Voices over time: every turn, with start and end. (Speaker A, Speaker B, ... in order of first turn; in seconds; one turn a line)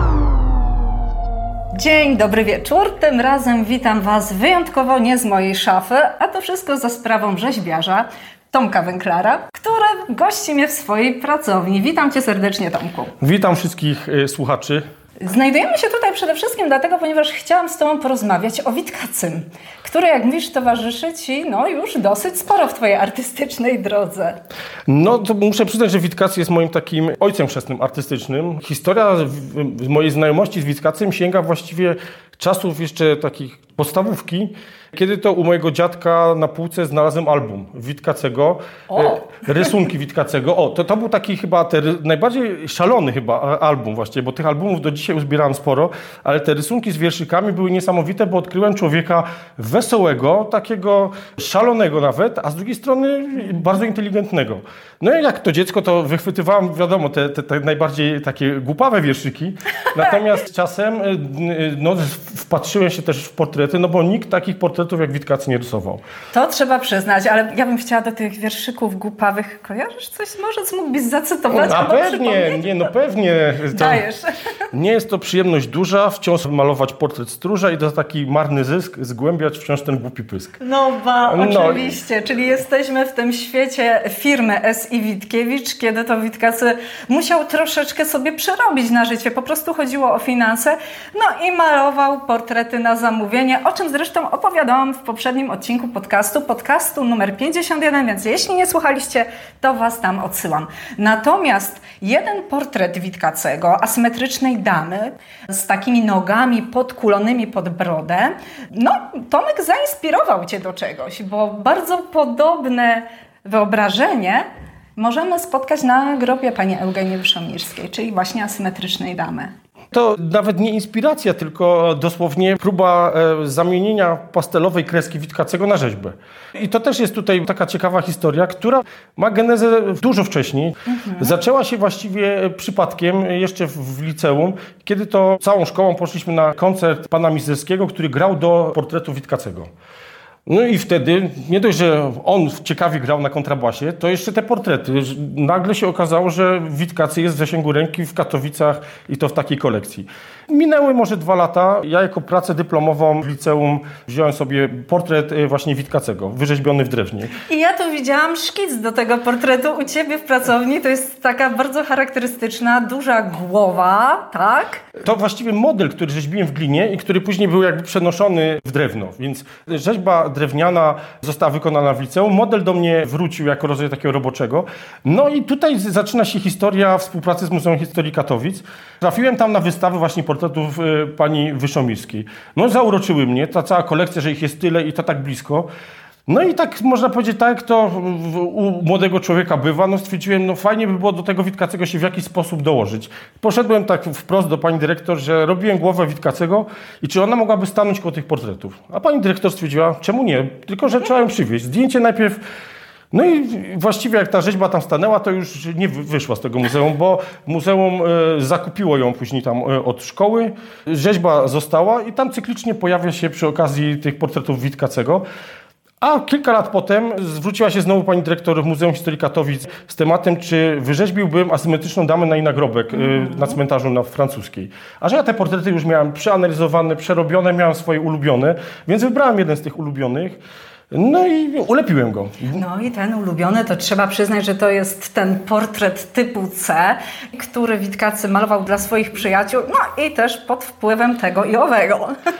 Speaker A: 1.7-13.1
Speaker B: 13.2-14.8
Speaker A: 15.2-24.4
Speaker B: 24.9-66.0
Speaker A: 38.9-39.7
Speaker A: 66.3-72.8
Speaker B: 71.5-74.0
Speaker A: 73.7-74.2
Speaker B: 74.7-80.6
Speaker A: 80.6-119.5
Speaker B: 81.3-81.9
Speaker B: 119.9-139.7
Speaker A: 130.9-131.3
Speaker B: 140.5-157.3
Speaker A: 157.4-164.8
Speaker B: 165.0-185.7
Speaker B: 186.3-202.4
Speaker B: 203.1-215.2
Speaker B: 216.0-230.4
Speaker A: 222.9-223.6
Speaker B: 230.9-232.6
Speaker A: 232.5-242.2